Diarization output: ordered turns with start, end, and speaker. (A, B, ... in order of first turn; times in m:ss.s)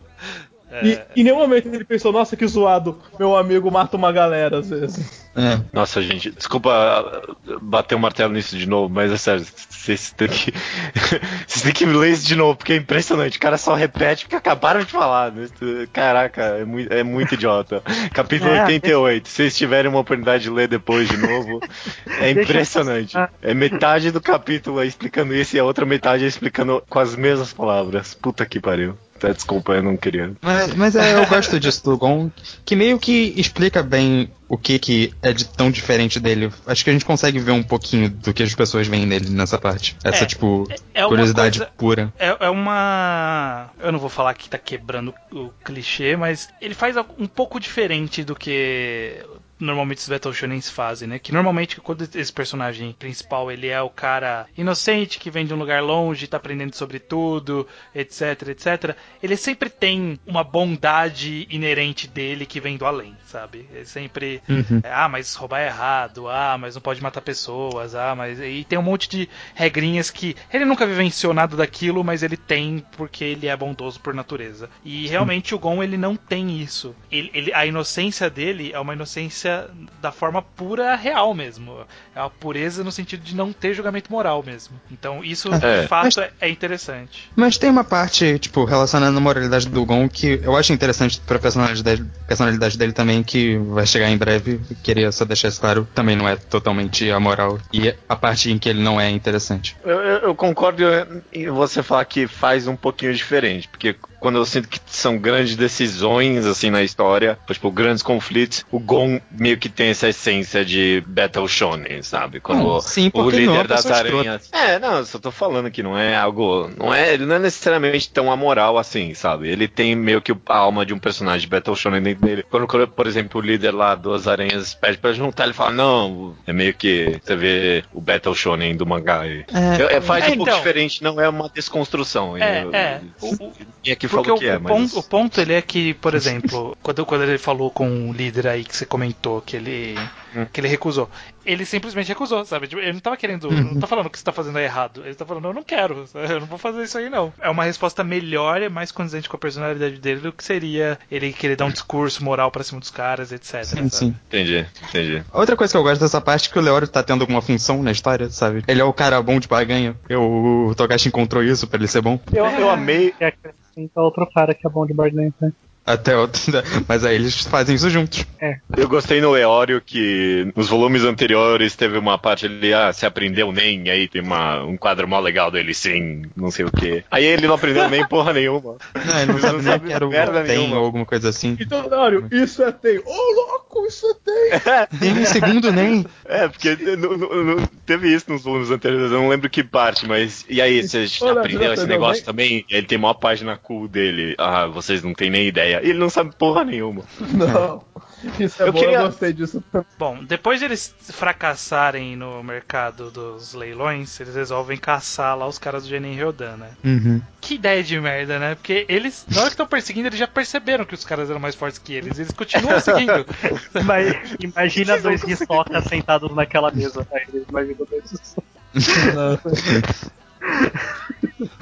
0:00.7-0:01.2 A
0:00.8-0:05.2 B
0:05.4-0:05.6 C
0:05.7-0:30.4 D
0:18.4-0:18.9 E
0:22.3-0:23.3 E
0:30.4-0:42.1 C
0:31.0-0:31.3 A
0:40.1-1:27.3 A
1:04.5-1:04.8 C
1:25.5-1:26.2 C
1:25.6-1:25.9 D
1:27.4-1:39.7 C
1:39.8-2:15.1 D
1:52.5-1:54.3 C
2:09.5-2:10.3 C
2:10.2-2:10.7 A
2:12.4-2:34.1 A
2:23.5-2:23.8 C
2:33.7-2:34.2 C
2:34.3-2:35.3 D
2:35.3-2:42.3 C
2:42.3-2:45.5 E
2:42.4-2:43.2 D
2:45.9-2:48.3 C
2:48.7-3:00.9 D
2:59.0-3:01.7 C
3:01.6-3:04.6 B
3:04.5-3:04.9 D
3:05.0-3:06.1 C
3:06.3-3:17.1 D
3:10.8-3:12.2 B
3:17.2-3:19.9 B
3:18.6-3:19.1 D
3:20.0-3:26.8 A
3:26.8-3:27.2 C
3:27.4-3:34.1 A
3:32.6-3:33.1 D
3:33.8-3:39.7 E
3:39.0-3:39.7 B
3:40.5-3:40.9 E